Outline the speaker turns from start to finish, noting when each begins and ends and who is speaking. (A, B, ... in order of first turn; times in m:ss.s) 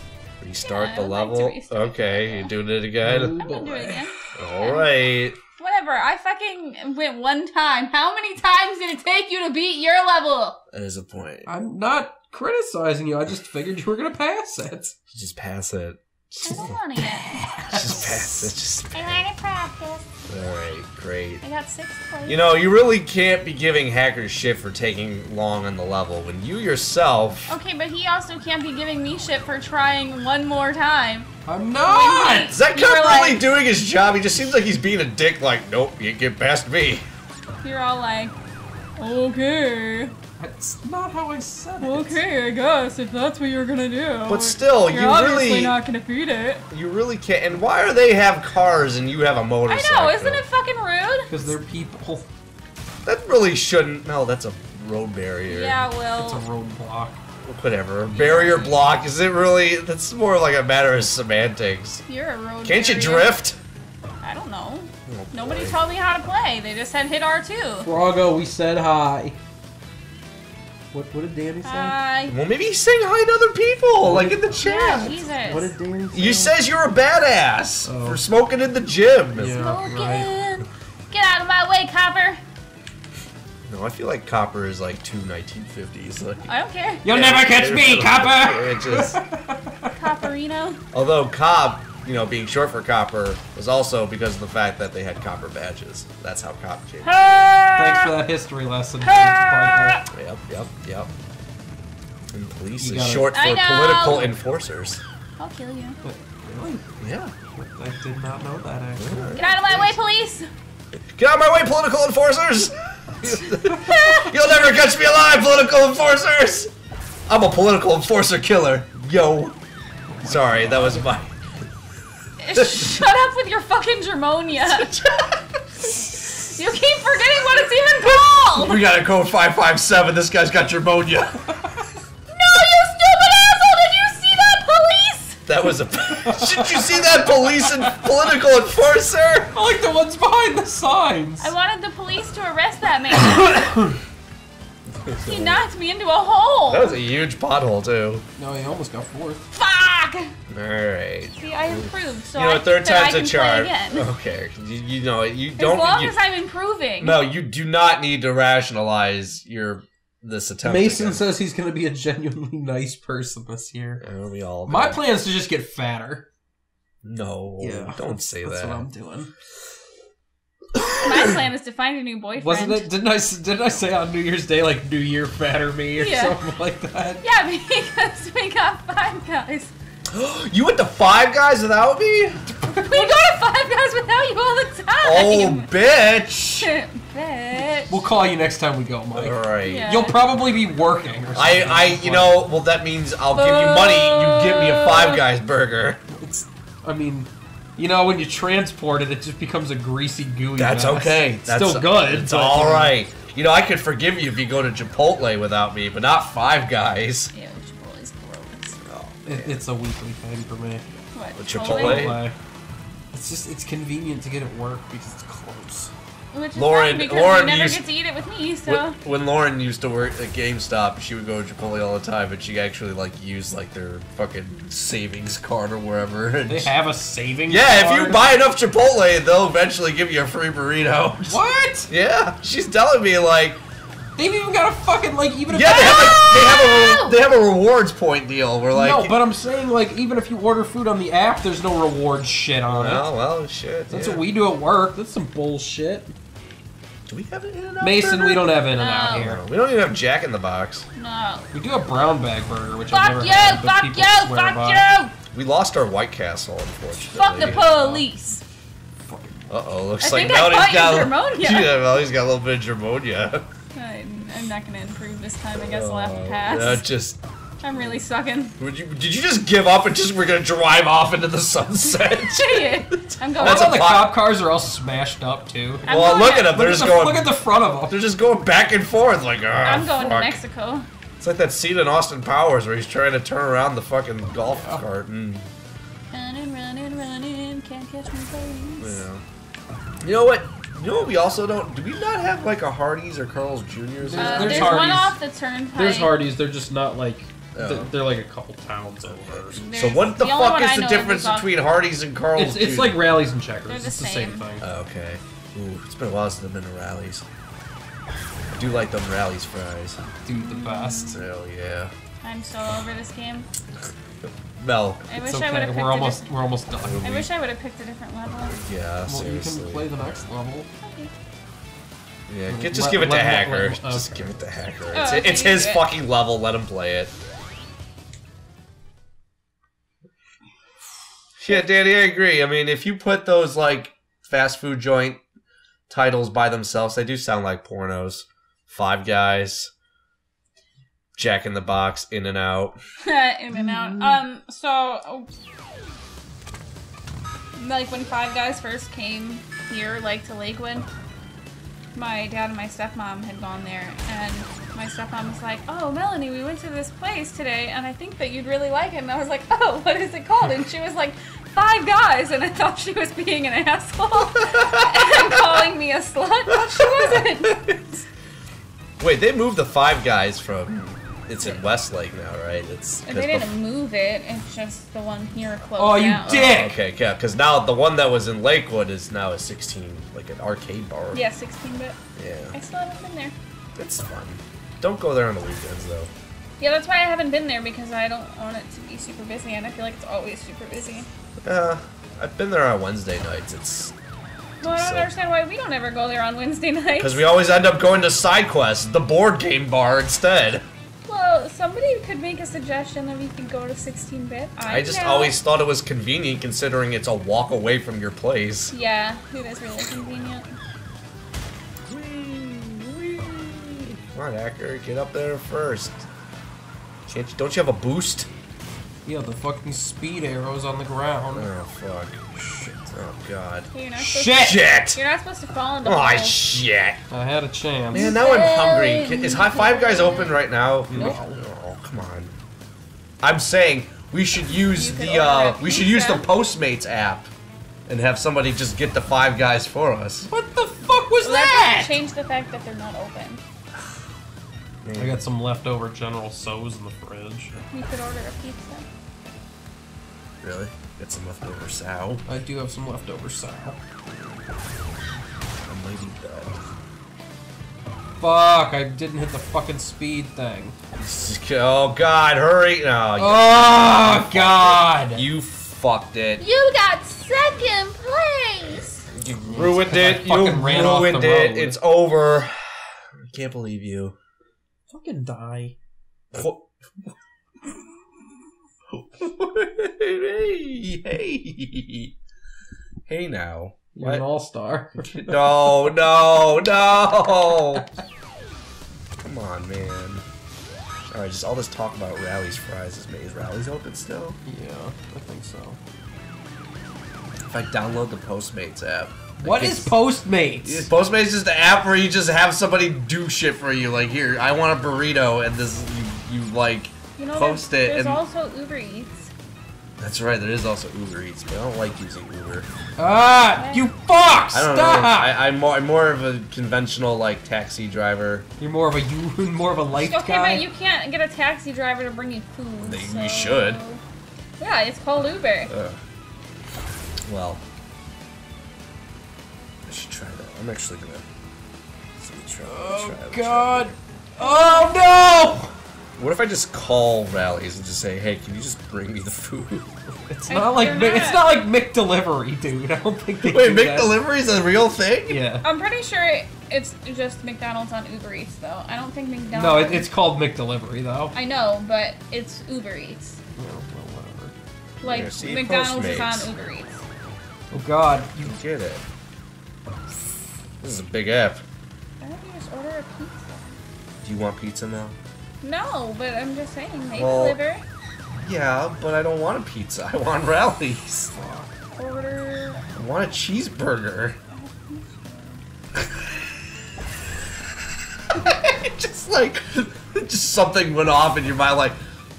0:00.4-0:03.4 A
0:00.6-0:02.5 B
0:03.0-0:04.1 C
0:03.4-0:04.9 B
0:04.4-0:05.4 A
0:05.6-0:10.6 B
0:10.7-0:11.5 A
0:11.5-0:14.9 C
0:15.1-0:16.8 A
0:16.4-0:17.3 B
0:16.6-0:18.5 C
0:17.6-0:19.2 A
0:18.9-0:20.1 B
0:20.3-0:21.4 A
0:21.4-0:22.5 B
0:22.3-0:27.5 A
0:27.5-0:31.3 B
0:31.5-0:32.6 C
0:31.8-0:33.4 B
0:32.5-0:37.1 A
0:37.6-0:38.4 B
0:39.0-0:40.2 B
0:40.4-0:42.2 C
0:41.8-0:46.6 B
0:44.3-0:45.8 A
0:46.7-0:50.4 A
0:49.7-0:51.3 B
0:51.3-0:52.3 C
0:53.0-0:55.8 A
0:55.5-0:56.4 B
0:56.1-0:57.2 C
0:57.4-1:02.0 A
0:58.1-0:58.9 B
1:02.1-1:03.4 B
1:02.6-1:03.6 A
1:04.2-1:07.9 B
1:05.1-1:05.8 A
1:07.8-1:09.4 C
1:10.9-1:12.0 C
1:11.6-1:12.4 B
1:12.3-1:15.2 A
1:14.0-1:16.6 C
1:14.6-1:15.7 B
1:16.1-1:19.6 A
1:17.8-1:18.2 C
1:19.4-1:20.3 C
1:19.5-1:22.4 B
1:23.7-1:26.5 A
1:26.4-1:27.0 B
1:27.0-1:30.0 C
1:27.1-1:29.2 A
1:29.9-1:30.8 B
1:30.9-1:37.5 A
1:37.0-1:38.2 B
1:37.8-1:40.0 C
1:39.0-1:40.0 B
1:40.1-1:41.1 A
1:42.3-1:45.0 A
1:42.8-1:43.3 C
1:43.3-1:44.3 B
1:45.4-1:46.0 B
1:46.0-1:46.8 C
1:47.0-1:47.3 A
1:47.5-1:49.3 C
1:49.0-1:50.0 A
1:49.4-1:50.5 B
1:51.2-1:56.7 A
1:53.4-1:54.3 B
1:57.3-1:59.6 A
2:00.1-2:01.1 C
2:00.2-2:01.3 A
2:02.4-2:04.9 B
2:02.5-2:03.0 A
2:04.6-2:05.6 A
2:06.3-2:08.8 B
2:08.4-2:11.4 A
2:12.3-2:15.4 B
2:15.5-2:19.6 A
2:16.2-2:18.0 C
2:19.5-2:21.5 C
2:21.4-2:23.5 B
2:23.2-2:24.0 C
2:25.0-2:25.6 A
2:25.2-2:27.0 B
2:26.7-2:28.2 A
2:28.4-2:29.5 C
2:29.5-2:30.3 B
2:30.5-2:36.2 A
2:31.4-2:34.1 B
2:35.6-2:37.2 B
2:37.0-2:41.3 A
2:40.6-2:44.0 C
2:44.0-2:45.0 A
2:44.7-2:46.3 C
2:47.0-2:48.8 A
2:47.6-2:49.3 C
2:50.8-2:51.4 A
2:51.0-2:52.9 B
2:52.4-2:57.2 C
2:56.0-2:56.4 B
2:57.2-2:59.7 B
3:00.1-3:02.5 A
3:02.6-3:03.2 C
3:02.8-3:05.7 B
3:05.0-3:06.7 A
3:06.6-3:08.0 B
3:07.9-3:12.4 C
3:09.2-3:09.9 A
3:09.6-3:10.2 B
3:11.3-3:16.0 A
3:13.3-3:15.2 B
3:16.1-3:23.0 C
3:20.6-3:27.3 A
3:27.3-3:28.8 B
3:28.8-3:29.6 A
3:29.3-3:30.8 C
3:31.1-3:32.2 B
3:31.4-3:32.2 A
3:31.6-3:32.4 C
3:33.1-3:35.9 C
3:36.3-3:39.0 B
3:36.6-3:37.8 A
3:38.7-3:46.7 A
3:46.5-3:48.2 C
3:47.5-3:53.6 A
3:51.3-3:51.9 C
3:54.2-3:56.3 C
3:55.5-3:59.2 A
3:55.7-3:57.2 B
3:58.7-4:03.1 C
4:02.7-4:04.3 A
4:03.9-4:06.1 C
4:07.1-4:08.5 A
4:07.8-4:09.4 C
4:08.8-4:09.3 B
4:09.1-4:10.9 A
4:11.0-4:11.5 B
4:11.5-4:14.8 C
4:12.9-4:15.1 B
4:15.3-4:17.6 A
4:17.1-4:18.4 B
4:17.4-4:18.1 C
4:19.1-4:19.5 C
4:19.5-4:23.5 A
4:20.0-4:21.8 B
4:23.8-4:26.8 B
4:25.6-4:27.2 A
4:27.6-4:28.6 B
4:28.6-4:34.2 A
4:31.9-4:33.8 B
4:33.4-4:38.0 C
4:35.8-4:37.4 A
4:35.8-4:36.5 B
4:37.9-4:40.4 A
4:39.6-4:40.9 B
4:41.2-4:45.5 A
4:44.5-4:44.8 C
4:46.1-4:49.0 B
4:48.8-4:49.2 A
4:50.0-4:55.0 A
4:54.0-4:55.2 C
4:54.2-4:56.1 B
4:55.8-5:00.0 C
4:57.6-4:57.9 A
4:59.1-5:03.0 A
4:59.6-5:01.6 B
5:02.4-5:04.7 C
5:03.7-5:04.4 B
5:04.6-5:07.2 A
5:08.5-5:10.0 A
5:10.2-5:11.1 C
5:10.3-5:11.2 B
5:11.1-5:11.9 A
5:12.2-5:13.5 B
5:14.6-5:15.1 A
5:15.1-5:16.3 B
5:15.2-5:17.1 C
5:16.8-5:17.3 A
5:17.0-5:18.6 B
5:18.5-5:19.9 A
5:19.1-5:20.7 C
5:20.8-5:21.1 B
5:22.3-5:27.1 A
5:22.5-5:24.4 C
5:24.9-5:25.9 B
5:31.4-5:35.2 A
5:35.9-5:39.7 A
5:41.2-5:42.8 A
5:43.0-5:45.3 B
5:43.6-5:44.2 A
5:47.6-5:50.9 B
5:52.0-6:08.0 B
6:04.4-6:05.7 A
6:06.5-6:07.8 A
6:09.0-6:13.5 A
6:13.1-6:16.5 B
6:15.8-6:16.8 C
6:16.3-6:21.2 A
6:21.1-6:22.0 B
6:22.2-6:22.6 A
6:22.5-6:23.4 B
6:23.8-6:26.1 A
6:26.6-6:31.1 B
6:31.4-6:33.9 A
6:34.6-6:37.3 B
6:34.6-6:35.1 A
6:37.0-6:40.7 A
6:41.0-6:45.4 B
6:44.7-6:48.7 A
6:48.7-6:50.6 B
6:51.9-6:56.1 A
6:57.1-6:58.3 A
6:59.0-7:01.5 C
7:01.3-7:02.2 A
7:02.4-7:02.9 C
7:02.9-7:05.0 A
7:03.7-7:06.5 B
7:04.0-7:04.6 C
7:05.8-7:07.0 A
7:07.1-7:08.1 C
7:07.9-7:12.3 A
7:07.9-7:10.4 B
7:10.9-7:11.4 C
7:10.9-7:11.2 B
7:13.2-7:17.3 A
7:14.8-7:16.3 B
7:17.9-7:20.3 A
7:20.3-7:22.0 C
7:21.2-7:23.4 B
7:24.8-7:25.2 A
7:25.0-7:27.5 C
7:27.7-7:28.9 B
7:30.4-7:32.2 A
7:32.3-7:33.8 C
7:35.7-7:36.6 A
7:38.2-7:40.8 C
7:41.0-7:46.4 A
7:43.2-7:45.2 C
7:46.4-7:49.0 B
7:49.1-7:54.2 A
7:49.5-7:51.8 C
7:54.9-7:55.8 C
7:56.3-7:57.1 A
7:58.9-8:02.2 A
8:03.1-8:04.2 A
8:04.0-8:05.6 C
8:05.1-8:07.9 A
8:09.2-8:10.2 A
8:11.1-8:14.4 A
8:14.5-8:15.8 C
8:17.4-8:20.0 A
8:19.4-8:20.9 C
8:20.6-8:28.2 A
8:27.2-8:29.3 B
8:30.0-8:32.7 A
8:33.0-8:35.3 C
8:33.6-8:33.9 B
8:34.5-8:38.5 A
8:38.6-8:40.6 C
8:40.0-8:44.0 B
8:42.8-8:43.8 A
8:44.6-8:45.7 B
8:45.7-8:46.0 A
8:47.3-8:47.6 A
8:49.9-8:51.3 A
8:52.2-8:54.0 A
8:52.7-8:55.7 C
8:54.4-8:55.0 B
8:56.2-8:59.9 A
9:00.3-9:04.2 C
9:00.5-9:01.4 B
9:03.4-9:05.4 A
9:05.3-9:05.6 C
9:05.6-9:10.1 B
9:09.5-9:11.3 C
9:11.3-9:13.4 B
9:13.6-9:14.5 C
9:15.0-9:17.0 B
9:15.0-9:16.5 A
9:17.7-9:18.5 C
9:18.4-9:19.0 A
9:20.8-9:21.6 A
9:22.2-9:23.8 B
9:24.2-9:25.2 A
9:25.6-9:27.8 B
9:27.2-9:27.6 A
9:28.4-9:31.3 A
9:31.3-9:31.7 C
9:32.0-9:32.9 B
9:32.9-9:34.4 A
9:34.5-9:35.6 B
9:36.0-9:36.5 A
9:38.3-9:42.0 A